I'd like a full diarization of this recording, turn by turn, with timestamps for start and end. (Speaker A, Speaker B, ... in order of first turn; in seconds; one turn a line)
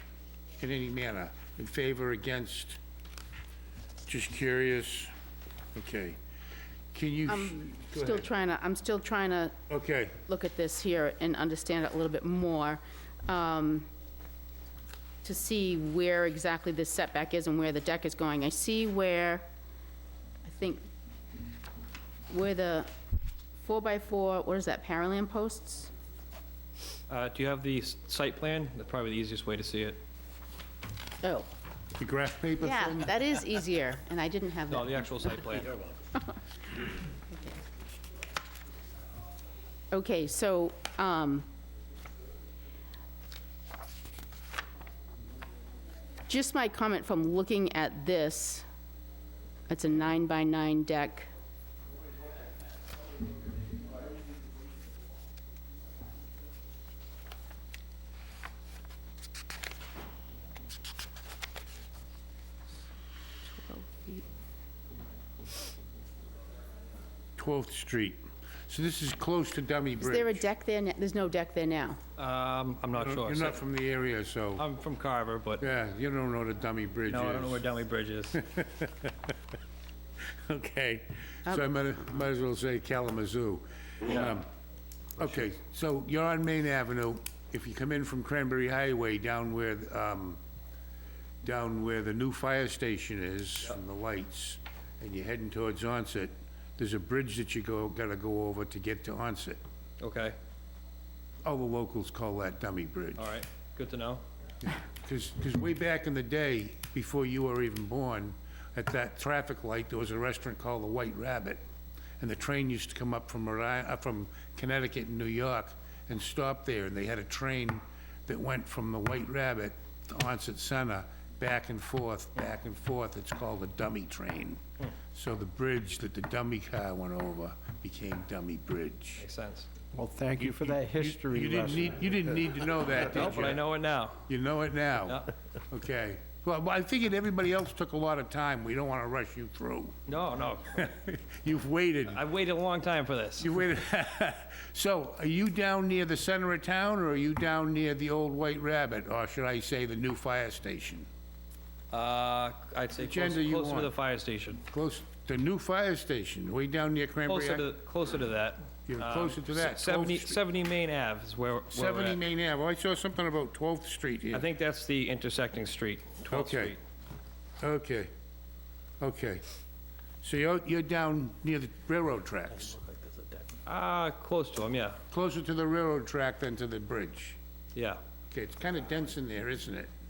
Speaker A: 0.6-2.8
Speaker A: 4.1-5.1
Speaker A: 5.8-6.2
Speaker A: 6.9-8.3
Speaker B: 7.3-9.6
Speaker A: 9.7-10.2
Speaker B: 10.3-13.9
Speaker B: 15.2-19.4
Speaker B: 20.4-20.8
Speaker B: 22.3-22.9
Speaker B: 23.6-25.9
Speaker C: 27.1-30.0
Speaker B: 31.2-31.5
Speaker A: 32.0-33.2
Speaker B: 32.6-36.4
Speaker C: 34.7-35.7
Speaker B: 37.3-37.6
Speaker B: 39.9-41.5
Speaker B: 46.3-48.6
Speaker B: 49.7-51.3
Speaker B: 63.5-64.2
Speaker A: 67.4-70.5
Speaker B: 70.0-72.0
Speaker C: 72.2-73.6
Speaker A: 73.0-74.6
Speaker C: 74.6-75.6
Speaker A: 75.6-77.6
Speaker C: 77.1-78.4
Speaker A: 78.4-79.1
Speaker A: 80.5-84.5
Speaker A: 85.2-90.4
Speaker A: 91.4-99.6
Speaker C: 100.0-100.4
Speaker A: 101.4-103.3
Speaker C: 103.2-104.2
Speaker A: 104.7-111.6
Speaker A: 112.2-129.2
Speaker C: 129.2-129.7
Speaker D: 129.9-132.3
Speaker A: 130.4-133.6
Speaker C: 133.0-134.3
Speaker A: 134.3-140.0
Speaker C: 140.1-140.9
Speaker A: 140.7-142.2
Speaker C: 142.1-143.5
Speaker A: 143.4-151.1
Speaker C: 151.9-154.6
Speaker A: 153.0-153.9
Speaker A: 154.7-157.7
Speaker C: 157.2-162.2
Speaker A: 158.9-160.4
Speaker A: 161.7-164.4
Speaker C: 164.3-166.8
Speaker A: 166.3-166.7
Speaker A: 167.6-168.1
Speaker A: 169.0-169.4
Speaker A: 170.2-172.8
Speaker C: 173.7-175.0
Speaker A: 175.1-177.4
Speaker C: 177.7-178.0
Speaker A: 178.3-179.9